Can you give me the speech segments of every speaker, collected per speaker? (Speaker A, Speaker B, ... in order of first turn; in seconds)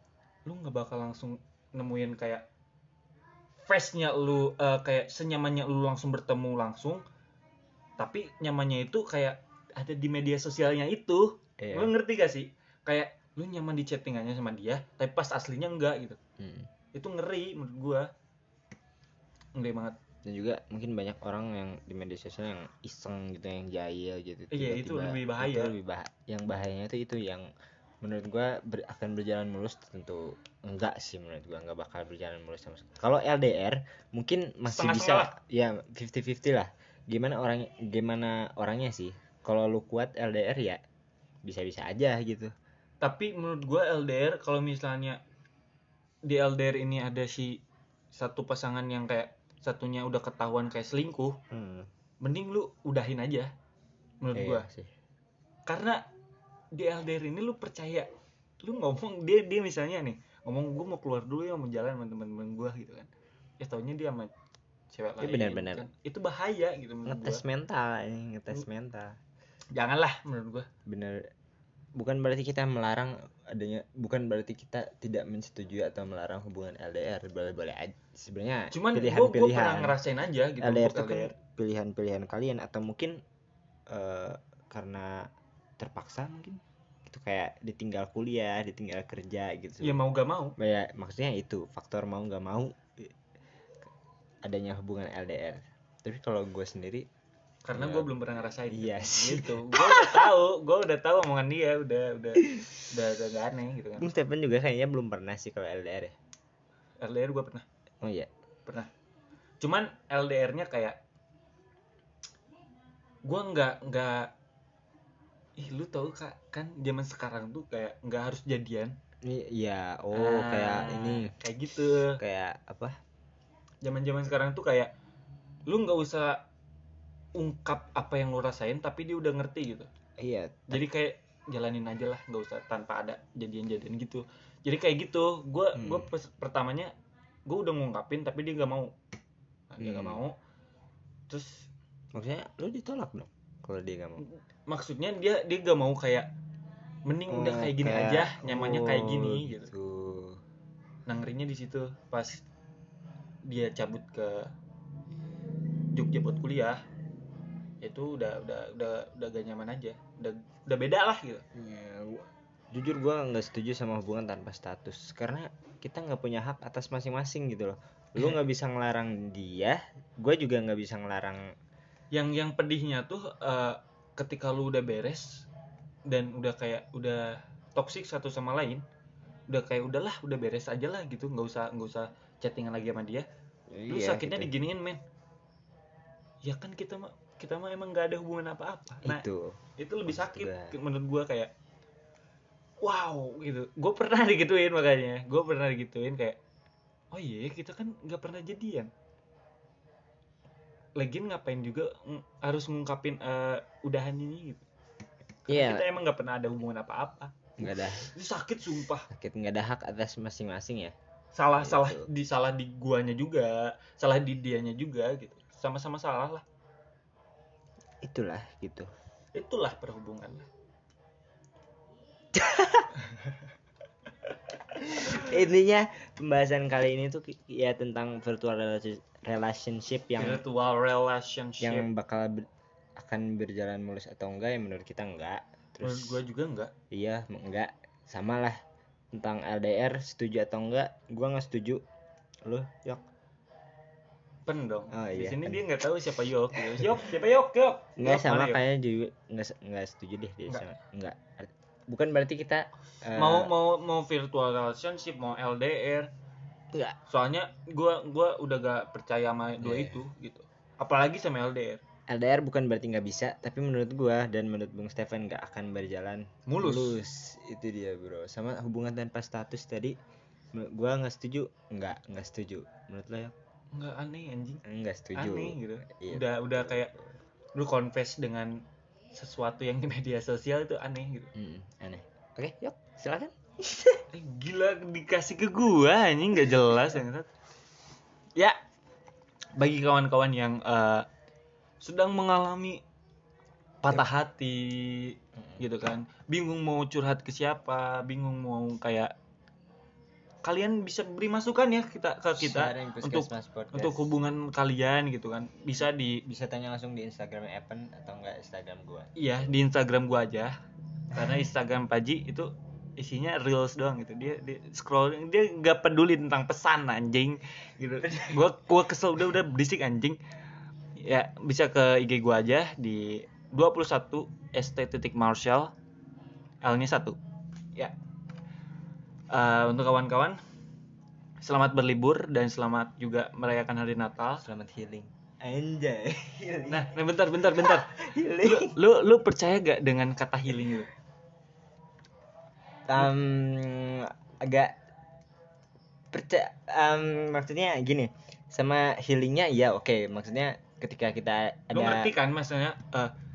Speaker A: 0.5-2.5, 3.6-7.0, 8.0-16.2, 16.9-18.1, 19.6-20.0, 24.5-25.7, 34.7-35.3, 43.0-45.2, 46.3-47.6, 48.1-51.4, 52.2-53.5, 54.2-54.6, 55.7-56.0, 56.7-58.1, 58.6-64.3, 64.9-67.4, 69.7-70.7, 78.7-81.3, 89.8-90.6, 97.7-104.1, 107.0-107.7, 109.6-111.0, 113.2-114.3, 115.6-119.0, 120.1-122.2, 123.8-124.9, 125.7-126.4, 127.4-129.9, 130.7-136.9, 137.5-138.9, 139.7-140.4, 141.3-141.7, 144.2-146.3, 147.1-149.7, 151.1-152.4, 153.5-154.5, 155.9-156.8, 157.8-161.4, 172.1-175.5, 176.1-178.8, 179.5-183.2, 183.9-185.0, 186.4-189.2, 189.8-191.5, 192.8-196.4, 197.1-198.9, 201.0-204.7, 205.5-209.1, 211.3-216.4, 219.3-220.5, 230.2-231.9, 235.8-236.7, 244.5-248.6, 253.2-256.1, 257.1-261.8, 266.5-267.0, 273.7-274.6, 275.2-276.9, 277.6-278.6, 279.1-281.3, 284.1-287.3, 289.6-291.1, 291.8-292.8, 293.8-299.1, 300.4-306.2, 309.2-310.5, 311.1-320.2, 321.0-325.7, 326.6-327.2, 329.3-330.4, 331.4-334.4, 336.7-337.9, 338.4-340.9, 351.7-353.1
Speaker B: 11.6-11.9, 16.4-16.7, 20.3-27.5, 28.0-40.8, 41.4-42.5, 51.5-51.9, 54.4-54.9, 65.2-65.9, 67.1-69.2, 70.9-71.3, 72.0-80.0, 80.6-83.2, 83.9-85.3, 85.8-90.0, 90.6-93.1, 94.4-97.1, 97.7-100.3, 104.0-106.2, 108.0-108.3, 119.2-121.3, 122.2-123.0, 130.2-130.8, 135.8-136.1, 139.8-140.2, 142.1-144.2, 147.3-150.4, 161.5-171.4, 183.7-184.5, 189.1-190.8, 205.5-205.9, 207.6-208.1, 209.1-210.9, 211.6-212.1, 218.0-218.9, 222.3-222.9, 224.8-230.4, 231.6-236.2, 236.9-238.6, 239.1-241.8, 242.5-243.0, 244.9-245.7, 246.6-247.0, 248.0-253.5, 259.6-260.0, 262.1-270.0, 270.5-273.3, 274.6-277.1, 281.4-284.0, 302.4-304.1, 306.3-309.1, 318.0-318.6, 334.4-337.0, 337.5-338.8, 342.9-344.8, 346.1-352.1